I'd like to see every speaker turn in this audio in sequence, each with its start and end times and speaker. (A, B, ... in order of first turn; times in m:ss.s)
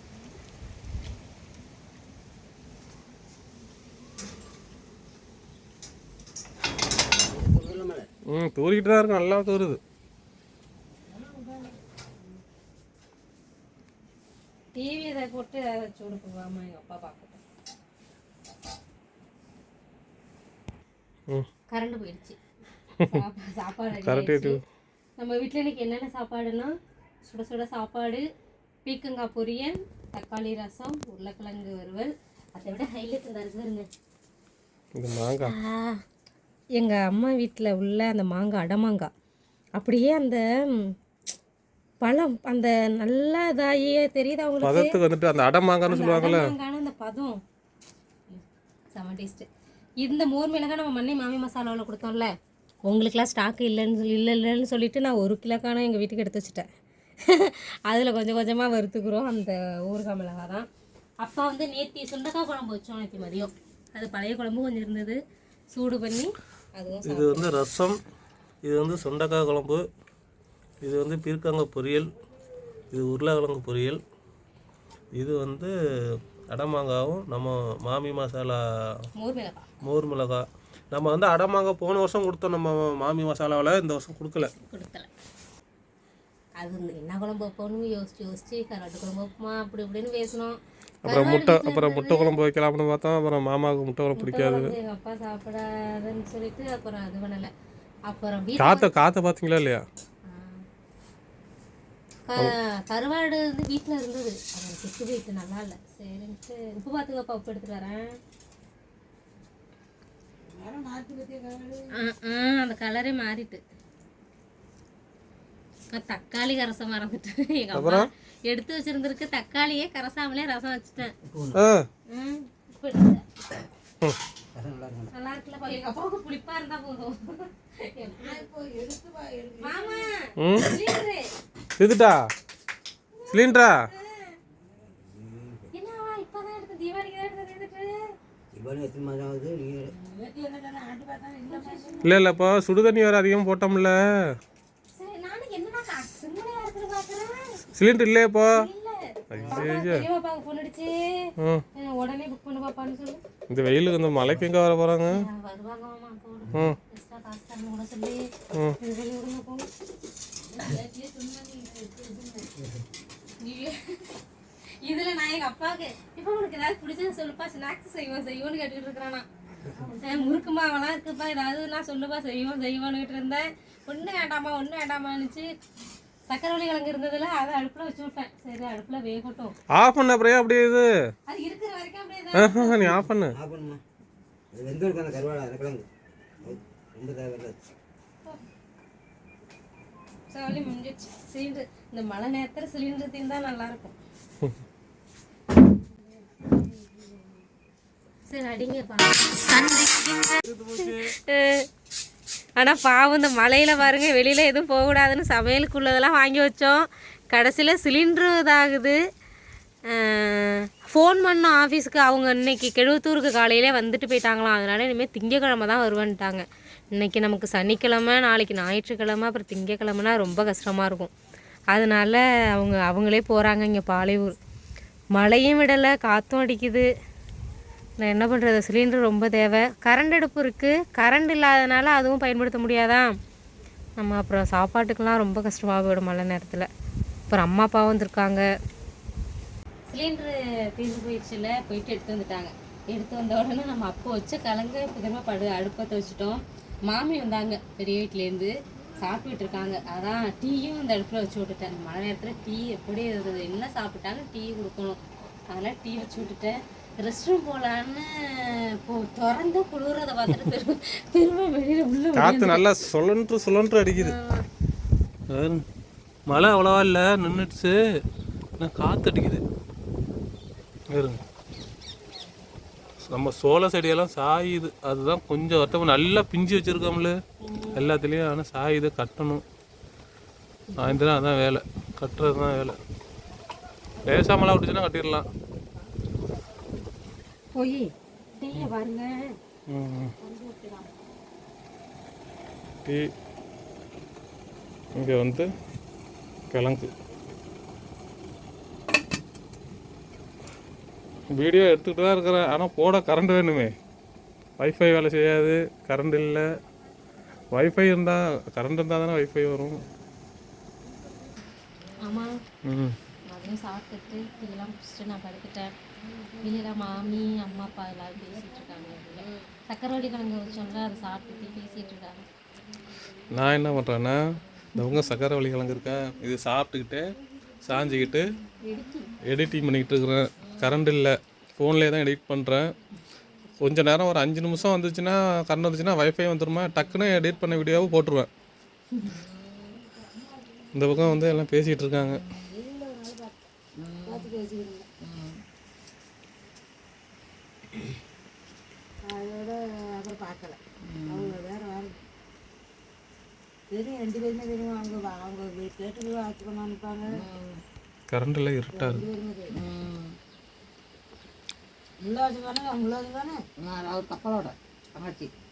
0:07.2-0:08.1 A
0:08.3-0:09.8 B
0:11.1-0:11.8 C
0:14.7-0:17.4 D
0:21.7-0:22.4 D
0:23.0-0:24.6 D
0:24.0-0:24.6 B
0:25.2-0:26.7 D
0:27.2-0:28.2 D
0:28.8-0:33.9 D
0:34.9-0:35.5 B
0:35.5-0:36.0 D
0:36.7-0:39.1 D
0:39.8-0:40.9 D
0:42.0-0:44.9 D
0:44.6-0:46.5 B
0:45.8-0:47.4 D
0:48.9-0:49.5 D
0:50.0-0:52.3 D
0:52.8-0:56.7 D
0:57.2-1:00.7 D
1:01.2-1:05.2 D
1:05.7-1:07.5 D
1:07.0-1:08.0 B
1:08.6-1:09.8 B
1:10.8-1:12.1 B
1:12.9-1:14.0 B
1:15.1-1:18.6 B
1:19.1-1:19.7 D
1:19.8-1:24.5 B
1:24.5-1:25.1 D
1:26.6-1:32.3 D
1:31.0-1:34.8 B
1:34.1-1:37.5 D
1:38.1-1:38.9 D
1:38.6-1:39.8 B
1:40.2-1:40.6 D
1:42.3-1:48.2 D
1:50.4-1:51.9 C
1:51.9-1:53.6 D
1:55.9-2:01.1 D
1:57.7-1:58.1 B
2:01.2-2:01.6 A
2:01.5-2:01.9 B
2:02.1-2:03.2 D
2:04.5-2:05.1 A
2:05.1-2:08.4 D
2:08.2-2:10.0 C
2:09.6-2:11.3 D
2:10.4-2:10.7 B
2:11.8-2:12.2 B
2:13.1-2:14.4 D
2:13.3-2:13.8 B
2:15.0-2:15.7 A
2:15.7-2:18.0 D
2:18.5-2:19.9 A
2:19.9-2:22.0 C
2:21.5-2:22.1 D
2:22.0-2:24.2 B
2:25.0-2:27.6 D
2:27.7-2:28.6 B
2:28.5-2:33.2 D
2:29.3-2:30.0 B
2:31.4-2:31.6 B
2:33.5-2:35.2 B
2:35.1-2:39.7 D
2:36.5-2:36.8 B
2:40.4-2:42.6 C
2:43.4-2:44.0 D
2:44.8-2:49.3 D
2:49.5-2:50.4 C
2:50.0-2:55.5 D
2:56.3-2:59.5 D
2:59.7-3:00.9 B
3:01.3-3:02.8 D
3:02.3-3:03.3 B
3:03.3-3:03.8 A
3:04.5-3:05.9 A
3:06.4-3:07.7 A
3:10.3-3:14.0 D
3:15.7-3:17.4 C
3:18.2-3:21.7 D
3:20.4-3:21.1 B
3:22.6-3:29.0 D
3:29.8-3:41.1 D
3:41.7-3:44.4 D
3:45.1-3:46.9 D
3:48.0-3:53.1 D
3:54.0-3:56.7 D
3:57.3-3:58.5 D
3:59.9-4:22.6 D
4:22.1-4:24.1 B
4:23.9-4:24.4 D
4:25.3-4:25.6 B
4:26.3-4:27.8 B
4:28.6-4:29.4 B
4:30.9-4:31.2 B
4:33.0-4:37.2 B
4:37.4-4:37.8 D
4:37.7-4:39.4 B
4:40.7-4:41.0 D
4:40.8-4:42.8 B
4:44.0-4:45.3 B
4:47.5-4:49.4 D
4:49.7-4:50.1 B
4:50.2-4:50.9 C
4:52.8-4:53.1 B
4:54.9-4:55.5 B
4:56.5-4:56.9 B
5:01.3-5:03.7 B
5:04.6-5:06.5 B
5:07.5-5:09.8 B
5:12.0-5:12.4 D
5:12.6-5:13.0 B
5:13.3-5:15.7 D
5:16.4-5:22.2 D
5:23.3-5:24.2 B
5:24.7-5:27.1 B
5:27.6-5:28.2 B
5:28.6-5:29.1 D
5:29.2-5:32.7 B
5:33.6-5:38.3 B
5:39.7-5:40.6 C
5:40.7-5:42.2 B
5:42.3-5:43.4 C
5:43.8-5:44.3 E
5:44.0-5:44.9 C
5:45.0-5:45.4 E
5:49.0-5:52.0 C
5:50.9-5:51.3 E
5:53.7-5:57.2 C
5:57.1-5:57.6 E
5:58.1-5:59.1 B
5:58.7-5:59.6 C
5:59.5-6:00.2 E
6:02.0-6:03.4 C
6:03.6-6:05.3 E